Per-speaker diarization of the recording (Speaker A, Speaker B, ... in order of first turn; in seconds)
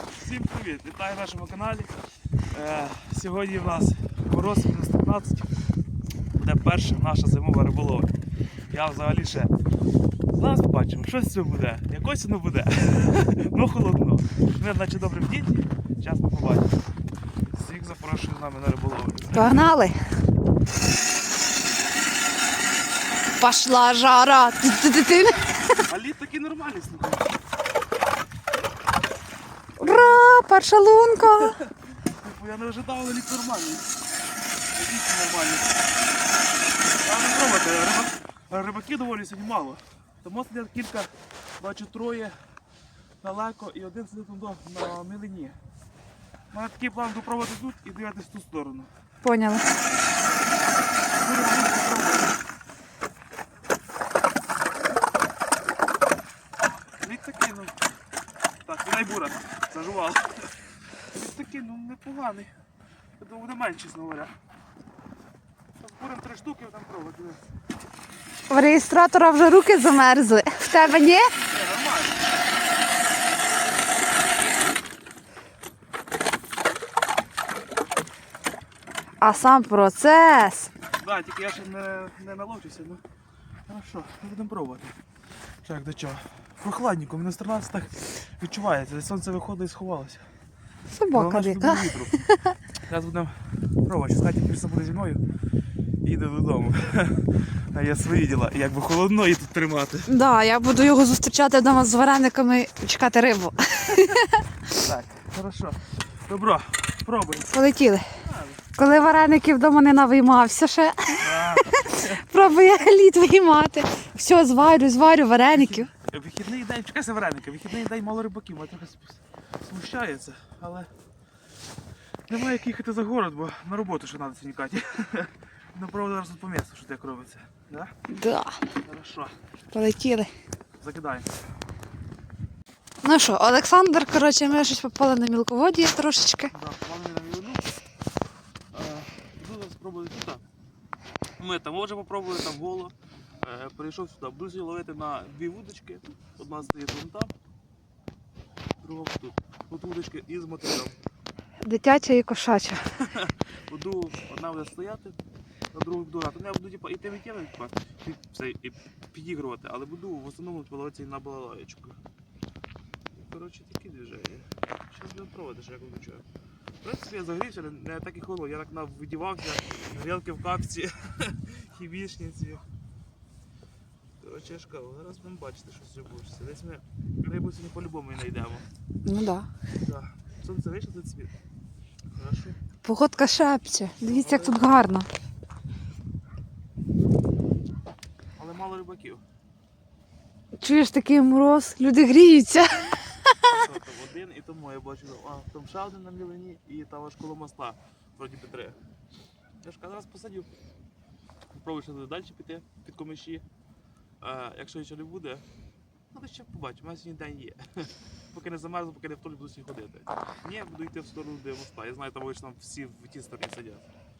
Speaker A: 0.2-1.9, 2.5-5.5, 6.3-8.1, 8.7-9.5, 10.3-16.7, 17.5-19.6, 25.8-27.3, 29.8-30.2, 31.4-33.9, 34.7-35.7, 37.0-42.4, 43.2-45.5, 46.5-48.9, 51.2-52.3, 57.0-57.7, 58.6-60.3, 61.1-62.5, 63.2-64.3, 65.8-67.4, 71.4-72.2, 81.0-83.0, 83.7-84.9, 85.6-90.2, 91.1-92.1, 92.8-95.2, 96.0-100.1, 104.7-107.5, 108.2-108.6, 111.2-112.2, 115.5-120.9, 122.3-127.9, 128.8-129.3, 130.8-131.3, 136.5-137.6, 138.7-140.4, 141.4-147.3, 148.8-150.9, 153.0-155.2, 155.7-161.9, 163.1-166.2, 166.8-172.6, 174.2-178.6, 179.8-181.3, 182.1-182.6, 184.0-184.6, 188.4-189.2, 193.5-198.8, 199.6-200.5, 201.5-203.4, 204.2-205.4, 206.1-213.9
Speaker B: 19.3-19.9, 23.4-25.6, 29.8-31.6, 49.2-49.6, 68.5-71.3, 79.2-80.7, 90.9-92.5, 100.1-104.4, 107.5-108.0, 108.8-115.9, 128.1-128.6, 129.7-130.3, 133.0-136.5, 151.6-152.8, 179.0-179.5, 182.8-185.1, 190.6-193.6